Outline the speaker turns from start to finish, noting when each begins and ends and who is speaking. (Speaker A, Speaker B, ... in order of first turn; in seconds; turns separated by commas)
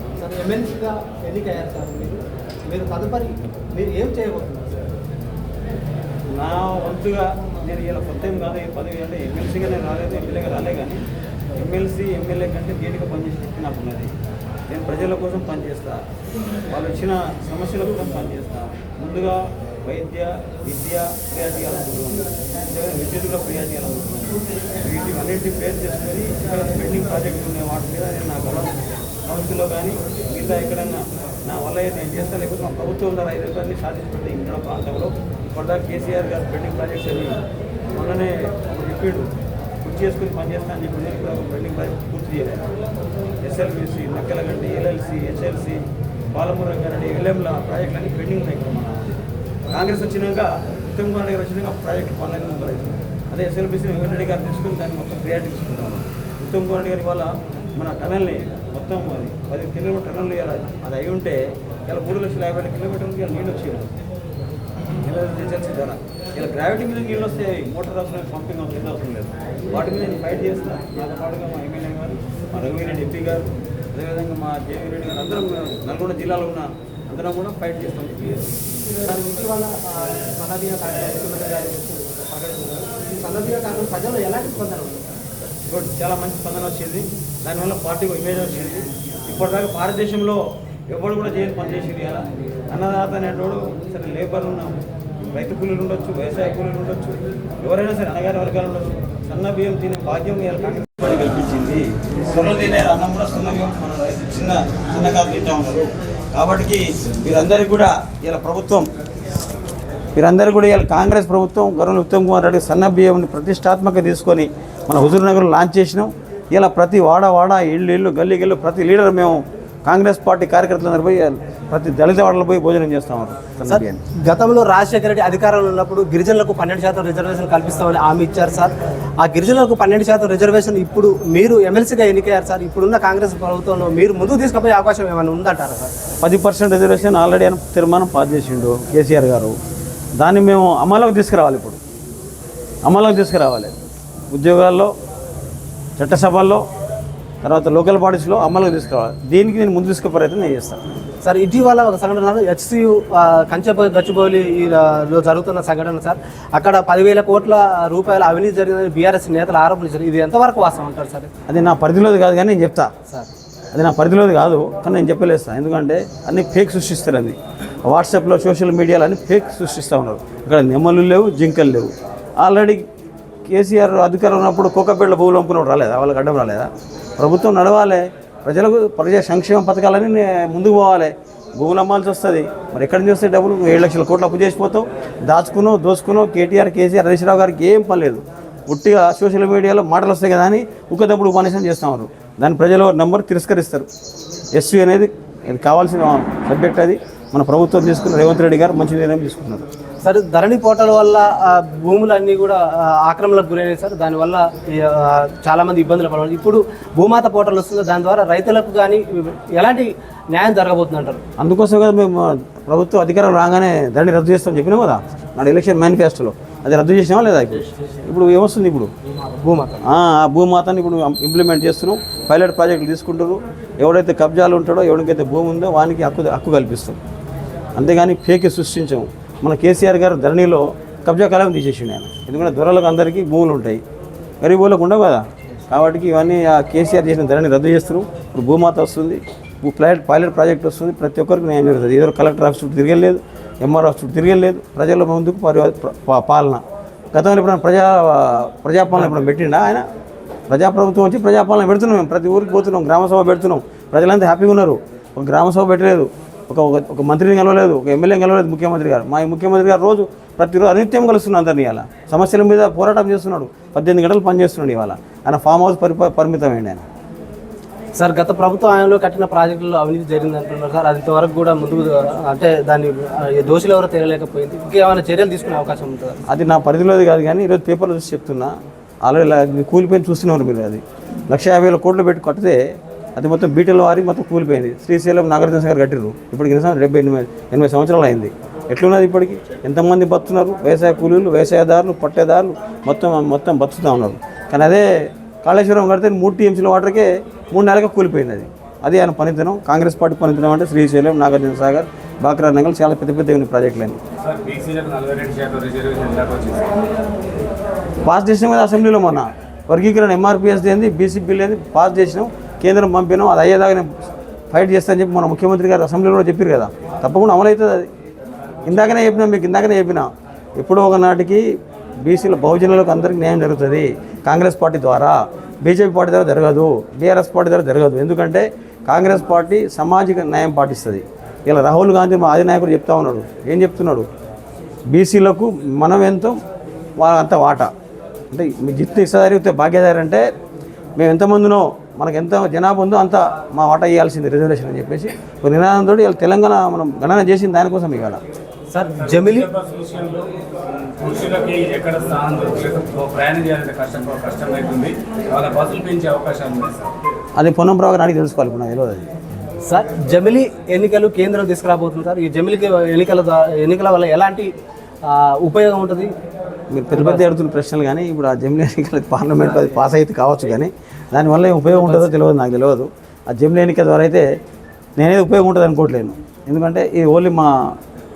Speaker A: 0.2-5.0, Speaker B: 6.3-11.0, Speaker B: 11.5-14.1, Speaker B: 14.7-16.0, Speaker B: 16.7-37.4, Speaker B: 37.9-39.3, Speaker B: 39.8-42.7, Speaker B: 43.4-45.8, Speaker B: 46.3-49.1, Speaker B: 49.7-63.9, Speaker B: 65.0-78.5, Speaker A: 79.0-85.1, Speaker B: 85.7-94.8, Speaker B: 95.3-108.9, Speaker B: 110.1-124.0, Speaker A: 123.7-135.9, Speaker B: 136.2-139.6, Speaker B: 140.2-141.8, Speaker B: 142.8-143.8, Speaker B: 144.3-144.9, Speaker B: 146.0-146.6, Speaker B: 147.4-150.8, Speaker A: 151.2-161.3, Speaker B: 161.5-162.9, Speaker B: 163.7-172.8, Speaker B: 173.5-193.9, Speaker B: 194.5-199.7, Speaker A: 200.0-211.2, Speaker B: 211.4-218.9, Speaker A: 219.0-219.8, Speaker B: 219.8-227.0, Speaker B: 227.7-233.8, Speaker B: 234.4-249.8, Speaker B: 250.5-266.8, Speaker A: 267.9-276.2, Speaker B: 276.3-282.6, Speaker B: 283.1-304.0, Speaker C: 304.2-306.7, Speaker B: 308.0-313.9, Speaker B: 314.5-317.9, Speaker B: 318.6-321.4, Speaker B: 322.0-334.1, Speaker B: 334.9-336.4, Speaker B: 337.0-337.7, Speaker B: 338.3-340.2, Speaker B: 341.0-348.2, Speaker A: 348.7-349.5, Speaker C: 349.0-356.9, Speaker B: 357.4-359.1, Speaker A: 359.6-364.5, Speaker A: 365.0-366.1, Speaker B: 366.7-374.2, Speaker A: 366.9-367.2, Speaker A: 371.6-372.1, Speaker B: 375.0-377.8